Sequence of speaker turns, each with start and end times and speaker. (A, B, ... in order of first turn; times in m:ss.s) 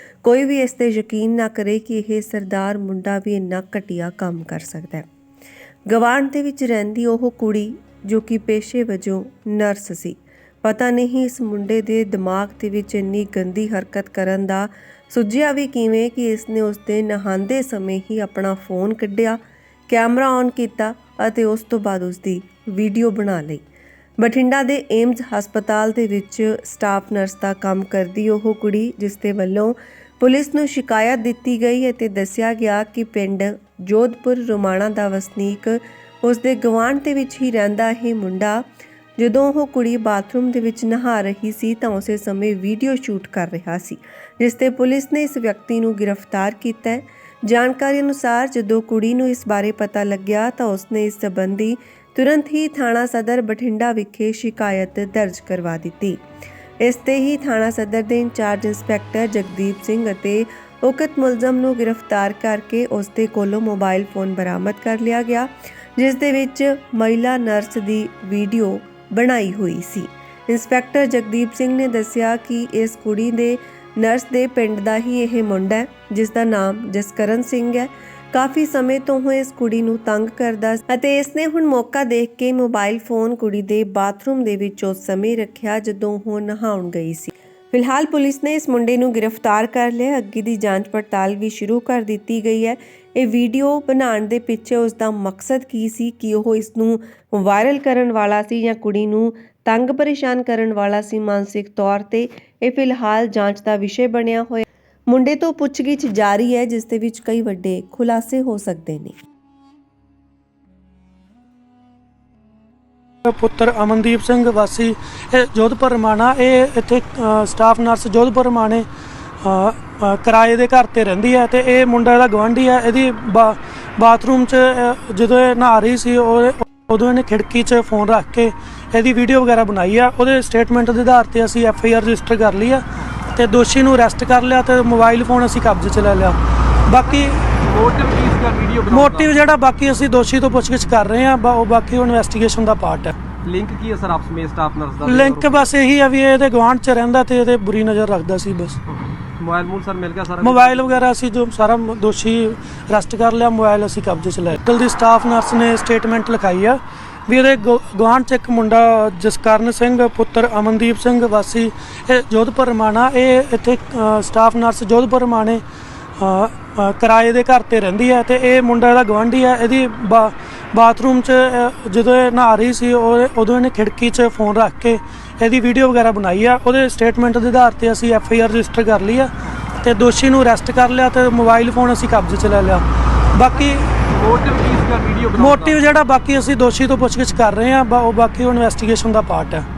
0:00.2-0:05.0 A
0:05.9-0:23.6 A
0:24.2-0:38.6 A
0:39.2-0:56.2 A
0:56.8-1:49.1 A
1:53.2-1:58.8 B
1:59.4-2:17.4 B
2:17.4-2:19.3 C
2:18.9-2:23.2 B
2:23.4-2:25.7 C
2:25.0-2:28.8 B
2:28.9-2:31.0 C
2:30.4-2:45.6 B
2:46.2-3:03.9 B
3:04.0-3:05.8 C
3:05.4-3:09.6 B